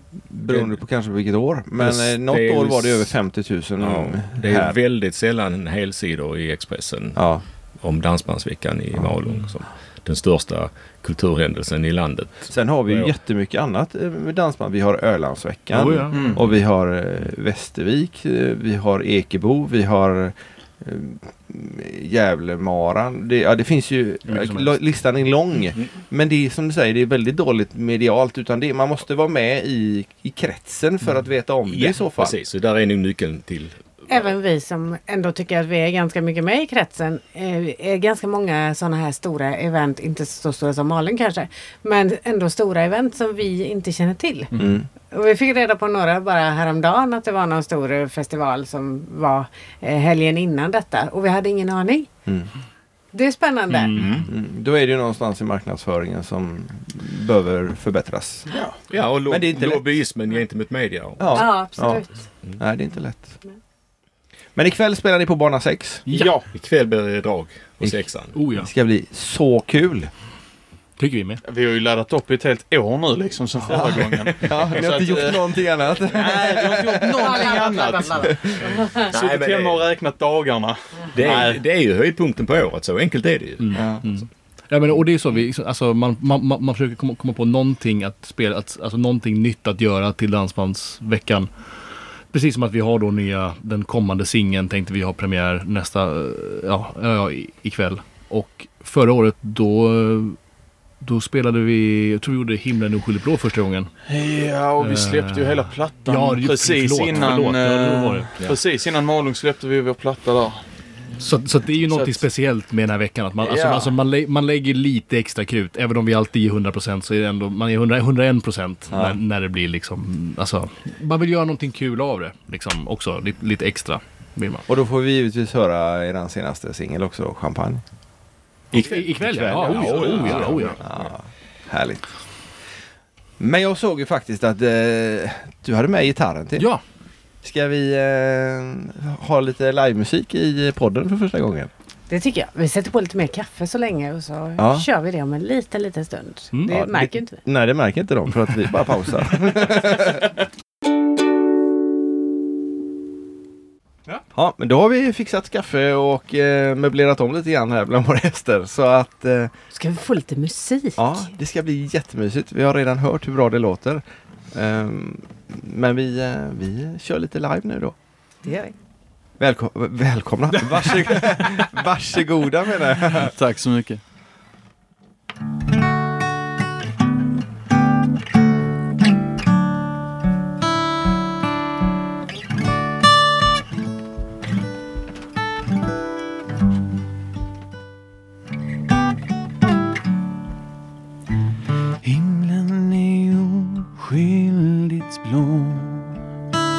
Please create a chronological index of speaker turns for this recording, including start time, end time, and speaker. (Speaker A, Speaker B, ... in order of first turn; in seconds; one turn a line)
Speaker A: 0.3-4.8
Speaker B: 0.5-0.8
Speaker B: 1.8-3.1
Speaker B: 3.8-7.2
Speaker A: 7.2-7.4
Speaker B: 7.8-13.1
Speaker A: 12.5-32.3
Speaker C: 15.7-16.4
Speaker D: 16.1-16.4
Speaker C: 24.3-24.8
Speaker B: 31.7-33.8
Speaker E: 34.1-44.5
Speaker C: 44.5-44.8
Speaker A: 44.6-44.9
Speaker E: 45.1-52.1
Speaker E: 53.1-54.0
Speaker C: 53.7-54.2
Speaker B: 54.0-54.3
Speaker A: 54.3-58.6
Speaker B: 58.9-62.6
Speaker A: 59.3-59.8
Speaker A: 61.2-62.0
Speaker E: 61.4-62.2
Speaker A: 62.6-63.4
Speaker A: 64.5-66.0
Speaker D: 66.1-66.5
Speaker B: 66.1-68.4
Speaker C: 68.3-68.7
Speaker A: 68.5-70.1
Speaker C: 71.0-71.4
Speaker D: 71.4-81.6
Speaker A: 74.4-77.3
Speaker E: 77.2-78.3
Speaker B: 79.1-79.9
Speaker B: 81.1-84.2
Speaker C: 83.6-91.7
Speaker A: 83.8-84.0
Speaker C: 92.3-100.4
Speaker C: 101.0-103.9
Speaker D: 104.1-110.6
Speaker C: 104.8-108.3
Speaker C: 111.2-124.7
Speaker D: 111.9-112.3
Speaker A: 113.4-113.9
Speaker A: 118.9-119.2
Speaker A: 124.7-127.8
Speaker C: 128.8-130.8
Speaker A: 129.2-132.0
Speaker B: 129.5-130.7
Speaker D: 129.6-130.3
Speaker A: 133.4-136.7
Speaker C: 136.6-136.8
Speaker A: 137.4-141.7
Speaker E: 142.1-147.4
Speaker A: 144.6-144.9
Speaker C: 146.5-147.0
Speaker A: 146.7-150.3
Speaker A: 154.3-159.5
Speaker E: 159.7-161.3
Speaker A: 161.0-167.9
Speaker E: 168.4-168.7
Speaker A: 169.4-173.3
Speaker D: 173.2-174.0
Speaker D: 192.0-196.2